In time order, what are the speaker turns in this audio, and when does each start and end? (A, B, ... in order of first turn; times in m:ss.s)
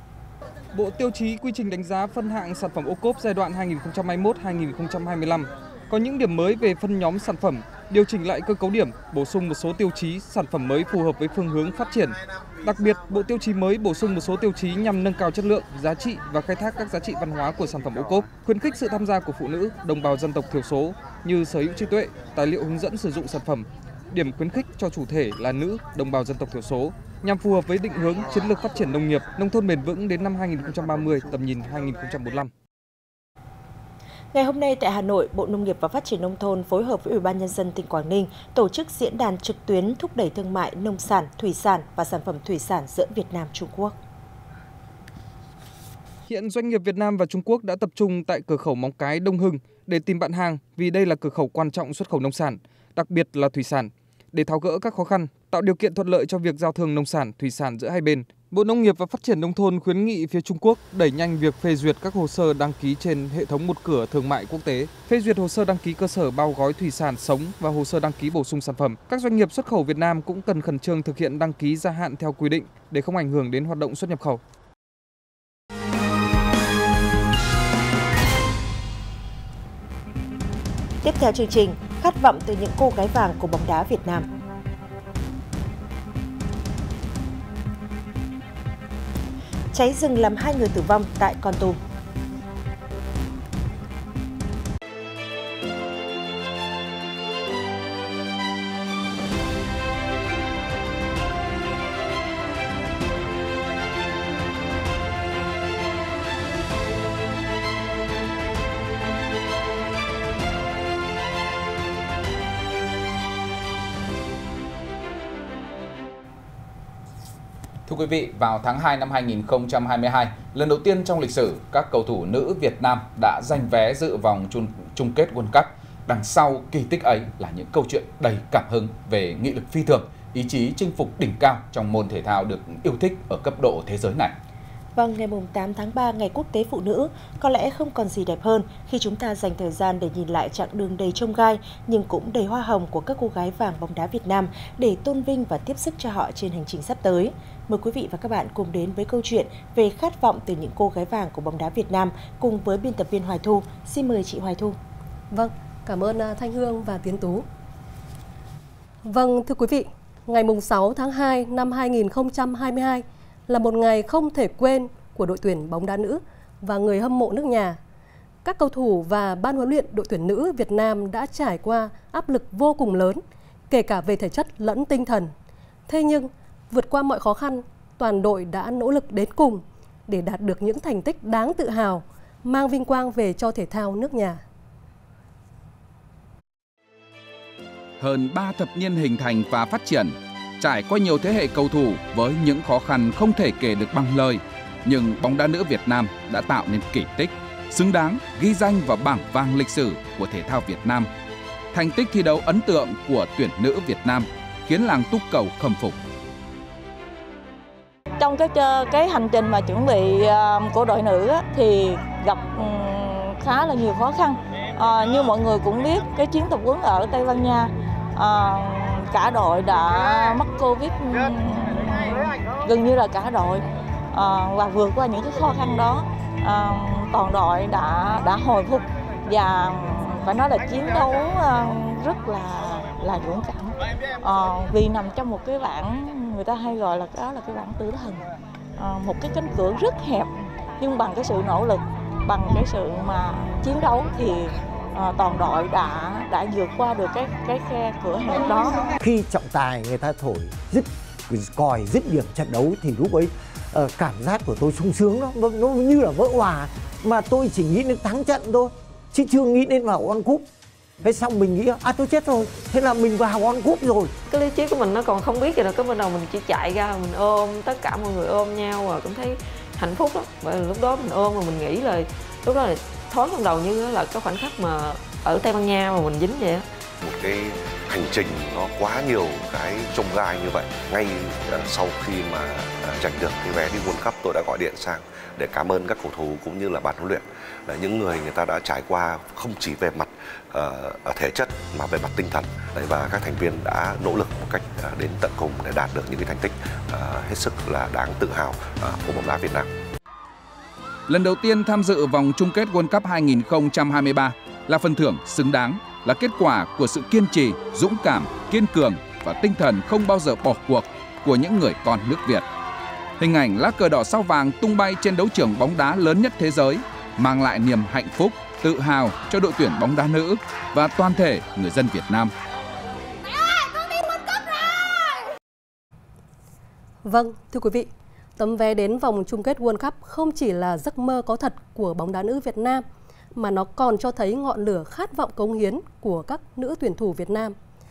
0:00.7-0:32.5 A
0:34.3-0:44.0 B
0:46.3-1:14.4 A
1:21.0-1:24.3 B
1:29.7-1:31.8 B
1:57.9-2:14.3 C
2:14.9-2:34.8 B
2:35.3-2:37.4 D
2:39.0-2:47.8 D
2:48.4-2:55.3 D
2:55.9-3:04.4 D
3:08.0-3:21.1 C
3:21.7-3:26.0 C
3:28.2-4:08.8 E
4:09.0-4:20.5 F
4:21.0-4:24.1 F
4:24.3-4:36.7 G
4:37.0-4:59.7 H
5:01.1-5:12.4 C
5:13.2-5:22.3 C
5:27.0-5:37.6 D